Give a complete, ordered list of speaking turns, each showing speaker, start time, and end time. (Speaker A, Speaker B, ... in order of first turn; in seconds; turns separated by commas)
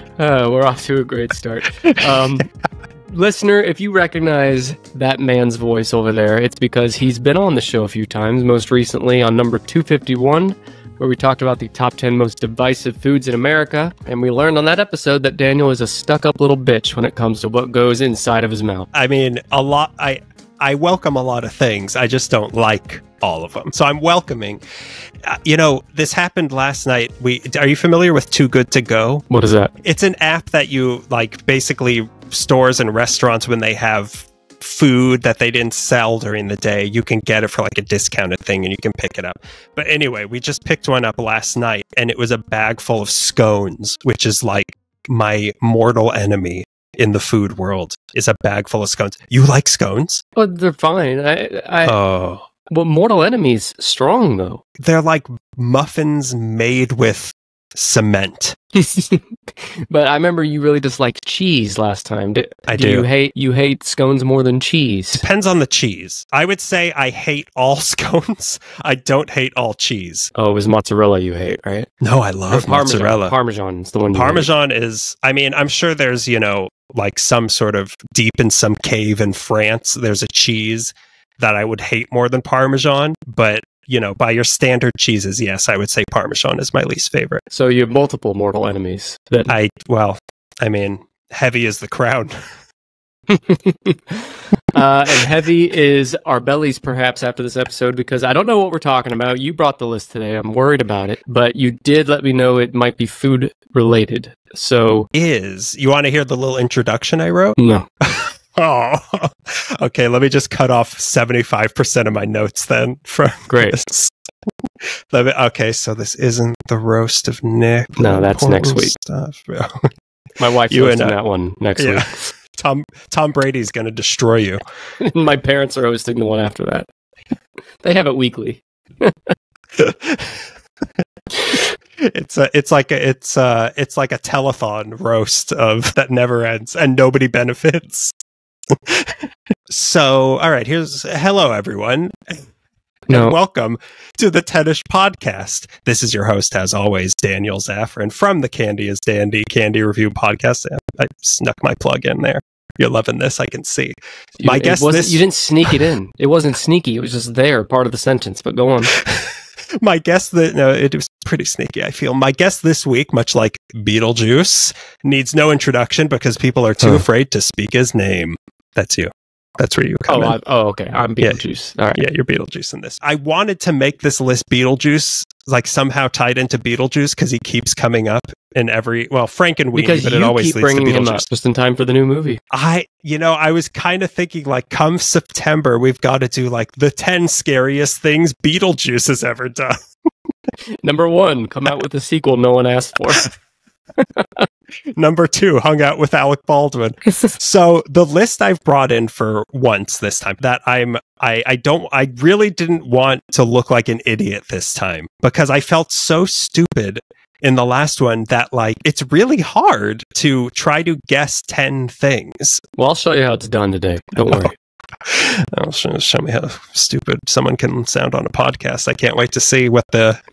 Speaker A: 0.2-2.5, Speaker B: 1.9-2.3, Speaker A: 3.1-18.9, Speaker B: 18.9-24.6, Speaker B: 25.2-29.3, Speaker A: 29.3-29.7, Speaker B: 29.8-50.2, Speaker A: 50.4-52.0, Speaker B: 51.9-52.5, Speaker A: 52.7-54.6, Speaker B: 54.8-58.6, Speaker A: 58.8-65.2, Speaker B: 62.7-63.1, Speaker B: 65.2-70.3, Speaker A: 70.3-71.9, Speaker B: 72.0-73.3, Speaker A: 72.5-74.5, Speaker B: 74.1-87.4, Speaker A: 87.5-89.5, Speaker B: 89.5-92.3, Speaker A: 93.3-94.2, Speaker A: 94.7-105.1, Speaker B: 105.1-114.1, Speaker A: 107.6-107.9, Speaker A: 113.5-113.8, Speaker B: 115.1-119.9, Speaker A: 118.0-118.9, Speaker A: 120.4-122.2, Speaker B: 120.7-121.1, Speaker B: 121.8-124.6, Speaker A: 125.0-126.9, Speaker A: 127.8-129.3, Speaker B: 129.8-130.4, Speaker B: 132.0-138.2, Speaker B: 138.7-142.4, Speaker A: 143.1-143.4, Speaker B: 143.1-155.8, Speaker A: 154.4-158.9, Speaker B: 158.9-170.4, Speaker A: 170.1-172.0, Speaker B: 171.9-181.3, Speaker A: 179.7-182.4, Speaker B: 182.5-189.8, Speaker A: 190.8-193.3, Speaker A: 194.2-194.4, Speaker B: 194.9-212.6, Speaker A: 212.8-214.5, Speaker B: 215.1-220.2